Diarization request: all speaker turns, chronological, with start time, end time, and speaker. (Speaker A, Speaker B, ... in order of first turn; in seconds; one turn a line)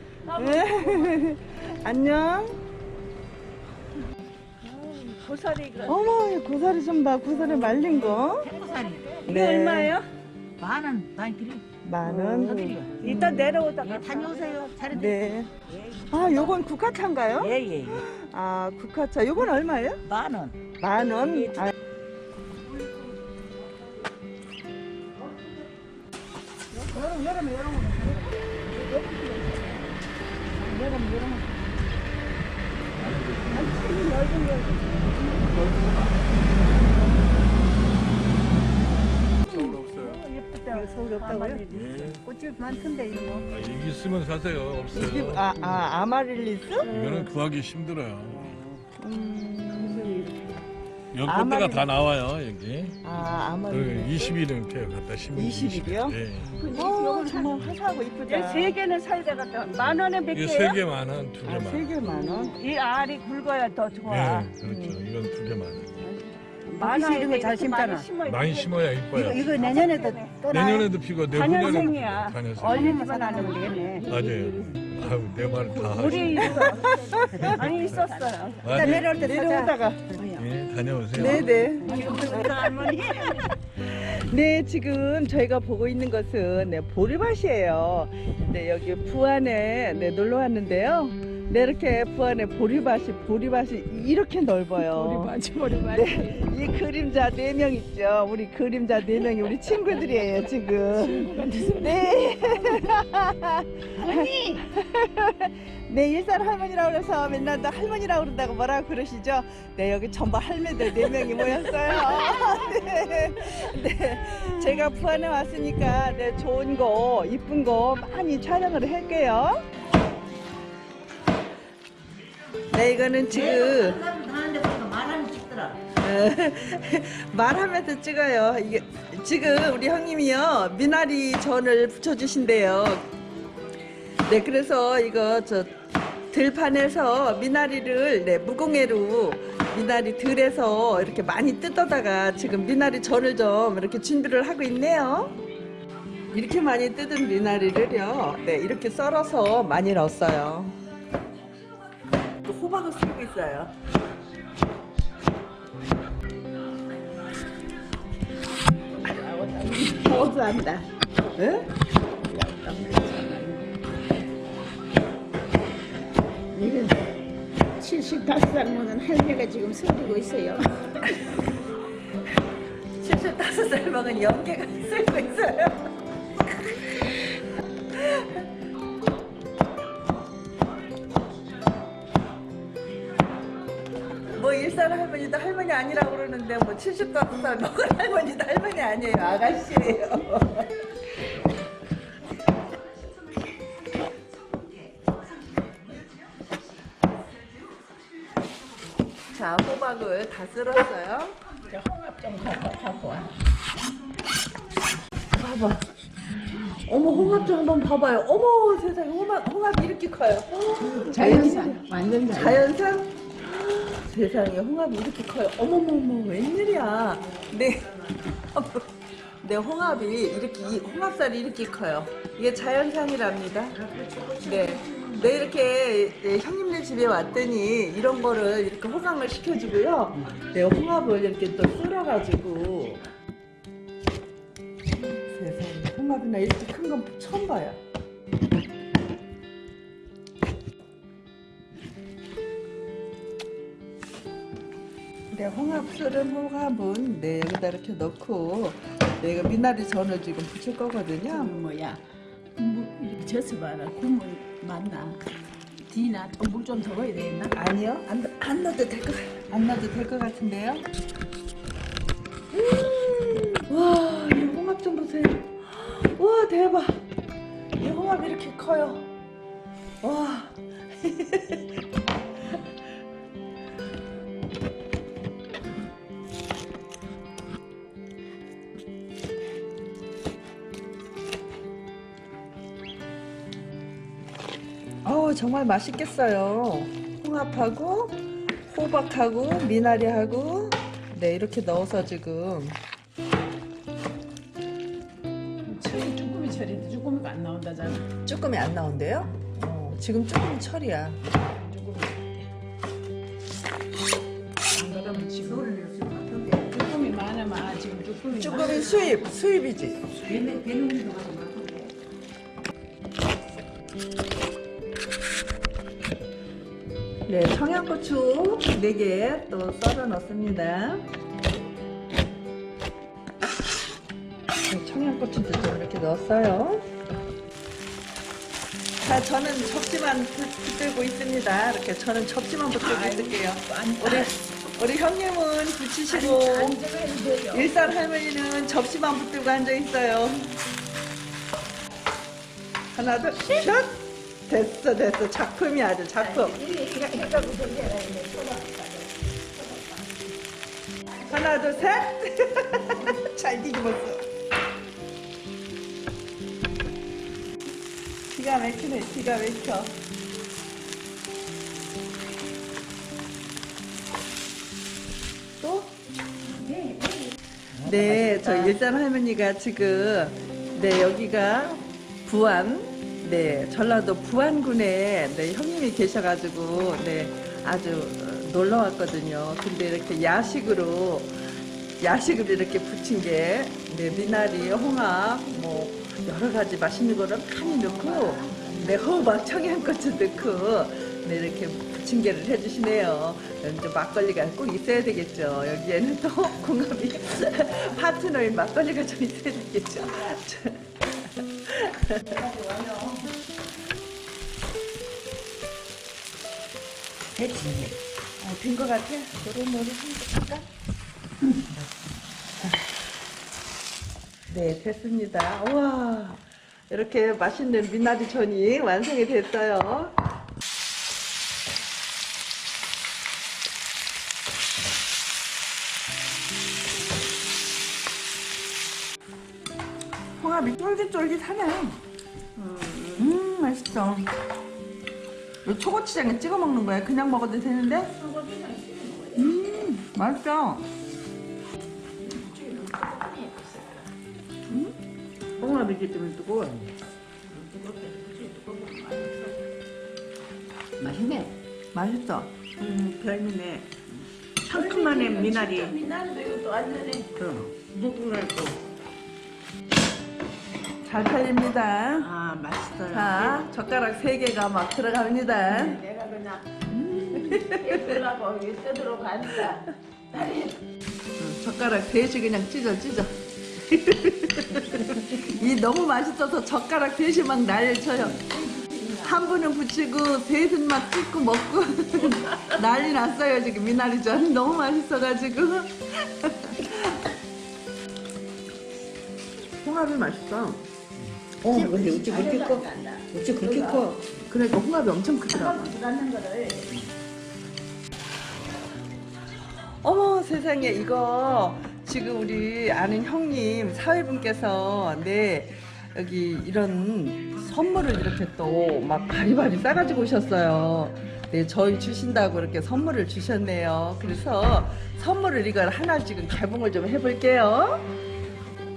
Speaker A: 0.2-1.2
Speaker B: 0.3-2.6
Speaker A: 4.7-6.1
Speaker B: 5.8-8.5
Speaker C: 8.4-9.2
Speaker A: 8.6-10.1
Speaker B: 9.2-10.0
Speaker C: 10.6-11.6
Speaker B: 11.8-13.5
Speaker A: 12.1-15.1
Speaker C: 12.3-12.9
Speaker C: 13.5-15.1
Speaker B: 14.9-15.5
Speaker B: 16.1-20.0
Speaker C: 16.2-16.5
Speaker C: 17.3-18.0
Speaker C: 20.1-20.6
Speaker B: 20.7-21.7
Speaker C: 21.3-21.7
Speaker C: 27.1-27.8
Speaker D: 28.9-29.8
Speaker A: 30.6-31.5
Speaker E: 33.0-34.2
Speaker A: 33.5-35.1
Speaker E: 35.3-36.2
Speaker E: 39.4-40.2
Speaker A: 39.5-42.1
Speaker C: 40.7-41.6
Speaker E: 41.7-42.2
Speaker C: 42.5-43.3
Speaker E: 43.5-45.5
Speaker B: 44.9-47.2
Speaker E: 46.9-48.6
Speaker B: 49.0-50.3
Speaker E: 51.1-53.0
Speaker B: 51.2-51.9
Speaker B: 53.0-54.4
Speaker E: 53.7-56.6
Speaker B: 55.3-58.8
Speaker A: 56.7-57.5
Speaker A: 58.2-60.8
Speaker E: 60.3-62.1
Speaker B: 61.4-62.5
Speaker A: 62.2-64.5
Speaker E: 64.0-66.1
Speaker B: 64.6-65.0
Speaker C: 66.7-68.1
Speaker A: 66.7-70.6
Speaker E: 68.2-69.7
Speaker C: 69.2-70.8
Speaker E: 70.5-73.0
Speaker A: 71.3-74.0
Speaker C: 72.9-74.1
Speaker D: 73.7-74.4
Speaker E: 74.0-76.7
Speaker A: 75.8-79.7
Speaker B: 76.4-77.7
Speaker D: 76.7-78.6
Speaker E: 77.3-78.1
Speaker E: 78.6-79.2
Speaker C: 78.8-80.3
Speaker B: 78.8-79.9
Speaker E: 80.3-81.6
Speaker B: 81.1-95.3
Speaker A: 81.3-83.3
Speaker D: 81.8-82.5
Speaker D: 94.7-96.5
Speaker B: 95.9-119.6
Speaker D: 100.9-102.8
Speaker D: 104.0-104.6
Speaker B: 122.7-124.0
Speaker C: 123.3-125.8
Speaker B: 126.0-133.1
Speaker B: 134.2-135.7
Speaker B: 136.3-145.4
Speaker B: 146.3-150.8
Speaker B: 152.3-153.7
Speaker D: 158.9-160.9
Speaker B: 161.4-161.7
Speaker D: 162.2-163.7
Speaker D: 166.5-167.1
Speaker D: 167.7-171.3
Speaker B: 173.0-175.8
Speaker B: 176.7-177.2
Speaker B: 177.9-178.4
Speaker B: 184.3-190.7
Speaker B: 193.9-196.3
Speaker B: 199.3-201.4
Speaker D: 201.7-203.3
Speaker B: 205.4-205.8
Speaker B: 206.6-218.8
Speaker D: 210.8-212.7
Speaker B: 219.4-233.0
Speaker C: 223.8-225.1
Speaker B: 235.0-237.8
Speaker B: 245.3-251.5
Speaker D: 251.3-252.0
Speaker D: 252.6-255.2
Speaker D: 255.8-257.6
Speaker B: 257.5-260.9
Speaker B: 262.5-267.0
Speaker B: 267.8-269.1
Speaker B: 270.0-271.6
Speaker B: 285.0-292.8
Speaker D: 295.6-298.1
Speaker B: 298.2-301.2
Speaker D: 301.5-302.5
Speaker D: 304.7-305.8
Speaker C: 305.4-306.6
Speaker D: 306.3-308.8
Speaker B: 308.4-310.1
Speaker C: 308.7-309.0
Speaker C: 310.2-311.9
Speaker B: 317.2-321.1
Speaker B: 324.7-326.9
Speaker B: 329.0-336.8
Speaker D: 332.8-334.4
Speaker D: 336.1-337.9
Speaker B: 337.5-340.5
Speaker B: 342.9-346.6
Speaker D: 346.1-350.2
Speaker D: 351.2-351.6
Speaker B: 351.2-354.2
Speaker B: 358.3-359.9
Speaker B: 365.6-365.9
Speaker D: 366.7-366.9
Speaker B: 367.8-381.4
Speaker C: 367.8-368.7
Speaker B: 382.0-400.9
Speaker D: 387.8-390.0
Speaker B: 401.6-402.5
Speaker D: 402.4-403.1
Speaker C: 407.4-407.9
Speaker B: 408.4-410.6
Speaker B: 414.5-420.1
Speaker B: 430.4-432.0
Speaker D: 432.6-433.2
Speaker B: 433.1-434.3
Speaker B: 435.6-438.1
Speaker D: 438.1-439.9
Speaker B: 439.3-440.9
Speaker D: 442.2-444.0
Speaker B: 444.7-444.9
Speaker C: 445.6-446.9
Speaker D: 447.5-449.6
Speaker C: 451.0-451.5
Speaker B: 451.9-452.5
Speaker C: 452.8-453.8
Speaker D: 454.6-457.4
Speaker C: 454.7-455.9
Speaker C: 457.4-458.7
Speaker B: 461.0-462.3
Speaker C: 462.2-463.2
Speaker B: 463.1-466.0
Speaker D: 465.6-470.8
Speaker B: 467.0-468.2
Speaker B: 471.4-478.4
Speaker D: 478.3-479.4
Speaker B: 479.2-487.2
Speaker B: 489.8-490.8
Speaker B: 491.6-492.8
Speaker D: 491.7-494.1
Speaker C: 491.7-492.7
Speaker B: 493.3-495.9
Speaker D: 495.5-496.9
Speaker B: 500.0-518.1